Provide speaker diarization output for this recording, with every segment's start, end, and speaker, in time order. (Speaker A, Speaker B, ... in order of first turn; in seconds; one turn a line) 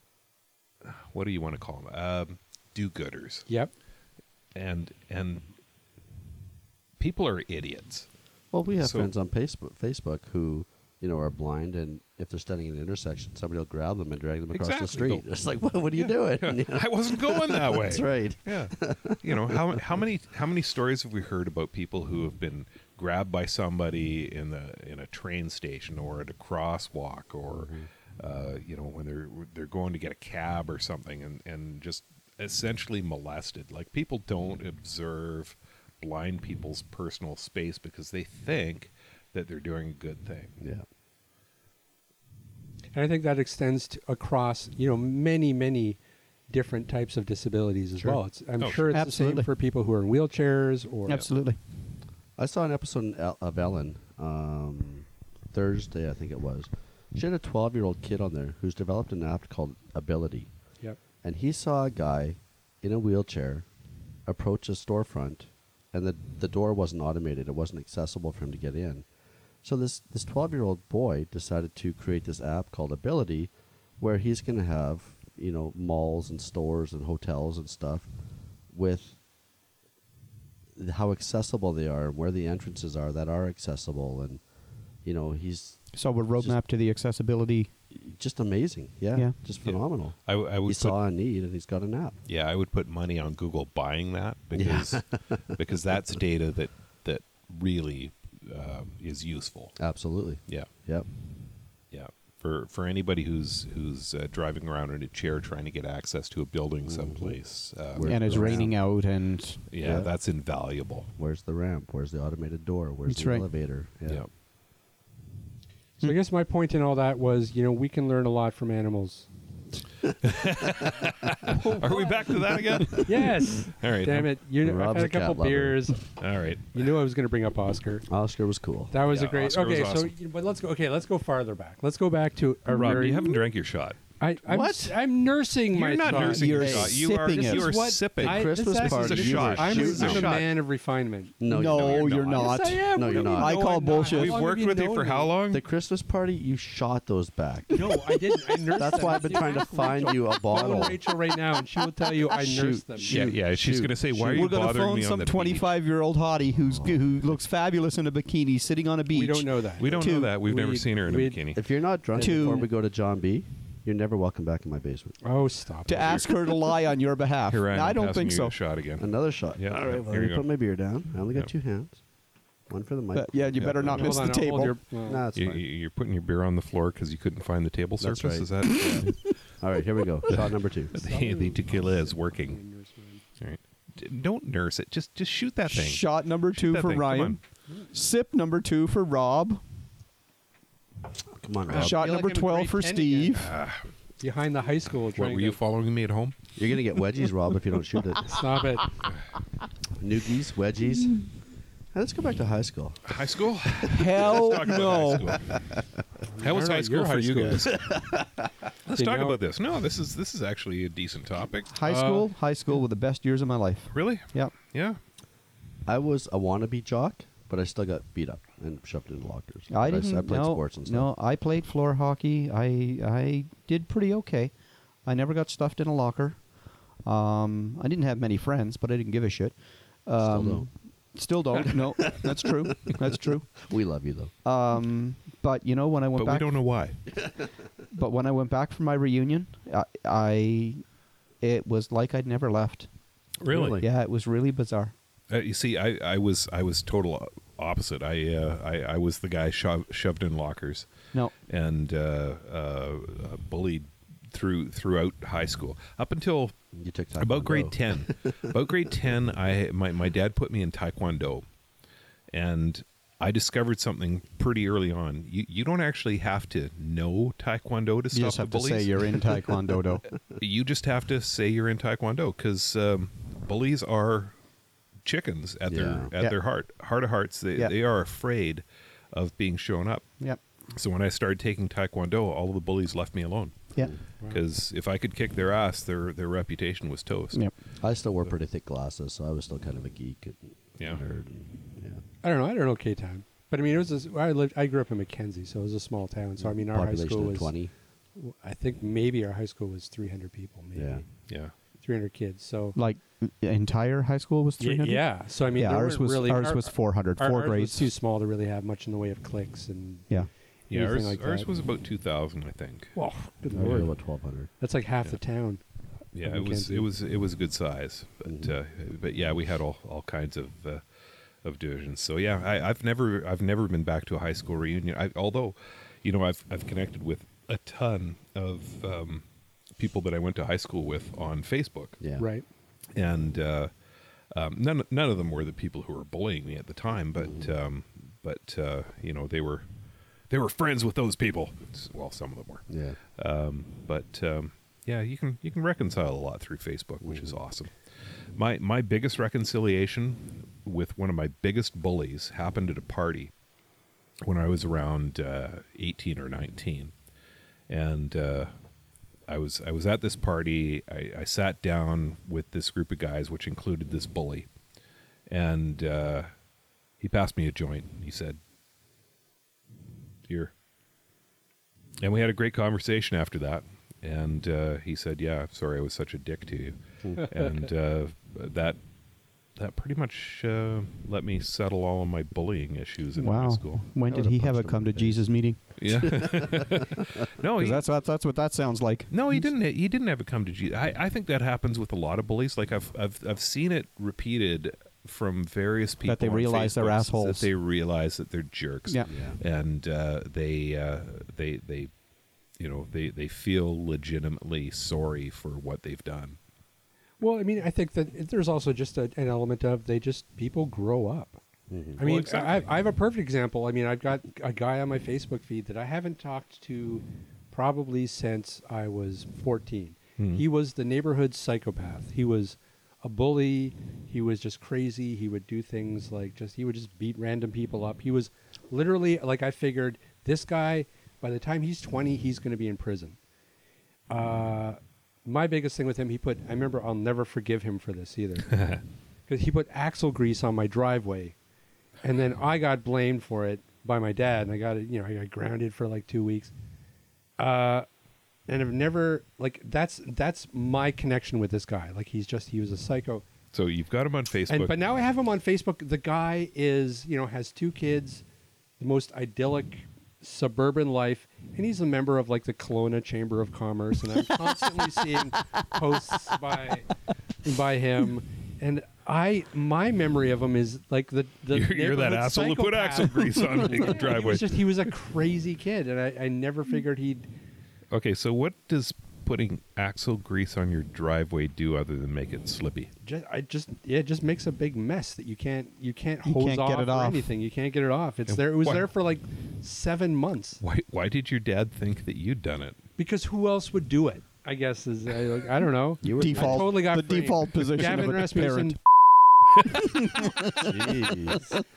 Speaker A: 0.8-3.5
Speaker A: 4.5-5.5
Speaker A: 7.0-8.1
Speaker B: 8.5-19.8
Speaker A: 8.8-9.1
Speaker A: 14.5-15.3
Speaker A: 15.9-40.5
Speaker B: 27.5-27.9
Speaker C: 42.9-51.2
Speaker A: 48.0-48.8
Speaker D: 48.9-49.5
Speaker D: 51.1-51.6
Speaker B: 52.4-60.5
Speaker B: 61.2-63.7
Speaker B: 64.3-69.1
Speaker B: 69.6-78.1
Speaker B: 78.7-79.2
Speaker B: 80.8-84.4
Speaker B: 85.0-86.6
Speaker D: 85.9-87.7
Speaker B: 87.9-92.2
Speaker A: 89.6-91.0
Speaker A: 92.3-95.0
Speaker B: 94.5-95.4
Speaker A: 95.6-99.8
Speaker B: 99.8-101.1
Speaker A: 101.9-108.7
Speaker B: 106.9-107.4
Speaker B: 107.9-108.7
Speaker D: 108.0-109.6
Speaker A: 109.7-111.1
Speaker B: 109.8-110.1
Speaker B: 111.2-114.2
Speaker D: 113.1-113.5
Speaker C: 116.0-119.3
Speaker A: 120.2-124.3
Speaker C: 121.5-122.2
Speaker C: 122.9-126.2
Speaker B: 124.6-125.8
Speaker A: 126.2-126.8
Speaker C: 126.7-128.1
Speaker B: 128.1-128.9
Speaker C: 128.9-133.4
Speaker A: 129.1-130.1
Speaker A: 132.7-134.0
Speaker C: 134.2-136.6
Speaker B: 134.5-134.9
Speaker A: 135.7-140.5
Speaker B: 136.1-136.9
Speaker D: 136.2-137.7
Speaker C: 137.3-141.4
Speaker B: 138.2-140.3
Speaker B: 141.4-143.6
Speaker D: 141.5-144.4
Speaker A: 141.7-145.6
Speaker C: 142.3-145.3
Speaker B: 145.5-148.0
Speaker C: 147.7-153.3
Speaker B: 148.7-151.0
Speaker D: 148.9-149.3
Speaker B: 152.2-154.5
Speaker A: 153.1-155.7
Speaker D: 154.3-160.3
Speaker C: 159.1-161.5
Speaker A: 159.8-161.6
Speaker B: 161.5-165.2
Speaker C: 162.1-162.7
Speaker D: 162.2-162.7
Speaker C: 165.2-166.3
Speaker D: 165.9-168.6
Speaker A: 166.0-166.3
Speaker A: 167.5-170.5
Speaker B: 169.0-172.0
Speaker B: 172.7-174.0
Speaker D: 173.1-174.8
Speaker A: 173.6-174.2
Speaker C: 173.9-175.2
Speaker B: 175.0-175.6
Speaker A: 175.3-179.3
Speaker B: 178.0-180.9
Speaker D: 178.8-179.2
Speaker A: 180.3-182.6
Speaker C: 180.9-183.2
Speaker A: 183.4-187.4
Speaker D: 185.7-187.4
Speaker D: 187.9-189.6
Speaker B: 191.3-192.1
Speaker A: 191.7-191.9
Speaker D: 191.7-193.5
Speaker C: 191.8-193.5
Speaker A: 193.3-193.8
Speaker C: 194.2-195.6
Speaker A: 195.2-196.4
Speaker B: 196.6-198.6
Speaker C: 198.2-198.9
Speaker B: 200.0-201.3
Speaker B: 201.9-203.0
Speaker A: 203.1-205.5
Speaker D: 203.8-205.3
Speaker B: 205.5-205.8
Speaker C: 206.3-207.7
Speaker A: 206.4-208.0
Speaker B: 207.9-208.2
Speaker A: 208.8-211.8
Speaker C: 208.9-209.4
Speaker D: 211.7-214.5
Speaker C: 211.8-212.3
Speaker A: 213.9-215.0
Speaker B: 215.9-221.1
Speaker D: 219.7-224.5
Speaker D: 225.1-226.4
Speaker D: 227.0-229.6
Speaker D: 230.1-233.5
Speaker B: 230.2-230.7
Speaker B: 231.6-233.0
Speaker B: 233.6-234.3
Speaker D: 234.4-236.5
Speaker A: 236.2-237.0
Speaker D: 237.9-240.8
Speaker D: 241.4-242.9
Speaker A: 243.4-243.8
Speaker B: 243.5-243.9
Speaker D: 243.7-244.9
Speaker A: 245.3-250.9
Speaker A: 251.5-256.6
Speaker B: 256.7-258.3
Speaker A: 257.2-261.4
Speaker A: 262.3-269.2
Speaker D: 268.1-270.1
Speaker A: 270.4-274.3
Speaker A: 275.0-280.1
Speaker B: 275.7-276.1
Speaker A: 280.7-283.7
Speaker A: 284.3-287.4
Speaker B: 287.8-292.0
Speaker C: 292.2-297.6
Speaker B: 296.4-297.7
Speaker C: 298.2-301.1
Speaker B: 300.8-301.1
Speaker A: 301.3-301.5
Speaker C: 301.8-302.8
Speaker D: 302.8-307.9
Speaker C: 304.6-310.1
Speaker C: 310.7-311.5
Speaker A: 310.7-312.9
Speaker C: 312.9-313.9
Speaker B: 313.5-314.5
Speaker C: 314.6-315.6
Speaker A: 316.1-320.8
Speaker C: 316.2-316.9
Speaker B: 318.3-318.6
Speaker A: 321.4-329.2
Speaker A: 329.8-332.0
Speaker B: 332.0-332.3
Speaker C: 332.2-332.4
Speaker A: 332.9-333.7
Speaker A: 334.3-339.6
Speaker B: 337.2-337.5
Speaker A: 340.3-347.7
Speaker B: 342.7-343.0
Speaker B: 347.0-347.4
Speaker A: 348.4-353.3
Speaker A: 354.2-356.9
Speaker A: 357.7-358.5
Speaker A: 359.3-364.5
Speaker A: 365.3-366.3
Speaker A: 367.0-368.4
Speaker A: 372.0-378.8
Speaker A: 379.6-383.9
Speaker D: 383.2-385.6
Speaker B: 384.1-385.2
Speaker A: 385.8-387.9
Speaker B: 386.2-387.1
Speaker D: 387.6-389.5
Speaker A: 389.1-401.9
Speaker D: 396.1-397.5
Speaker B: 399.1-399.4
Speaker A: 402.6-406.4
Speaker C: 407.2-411.4
Speaker B: 411.7-412.0
Speaker C: 412.0-433.2
Speaker A: 412.0-412.7
Speaker A: 420.2-420.4
Speaker C: 434.1-438.7
Speaker A: 438.5-438.8
Speaker C: 439.3-441.4
Speaker C: 442.0-446.5
Speaker C: 447.4-447.9
Speaker C: 448.5-453.2
Speaker A: 453.5-454.7
Speaker C: 454.5-458.2
Speaker C: 458.8-466.9
Speaker C: 467.4-477.3
Speaker A: 471.5-474.8
Speaker A: 477.9-482.9
Speaker C: 483.0-490.6
Speaker D: 486.2-487.3
Speaker A: 488.3-488.9
Speaker A: 490.6-492.8
Speaker C: 493.0-498.8
Speaker B: 496.0-496.7
Speaker D: 496.2-498.8
Speaker D: 499.6-500.8
Speaker B: 500.6-501.6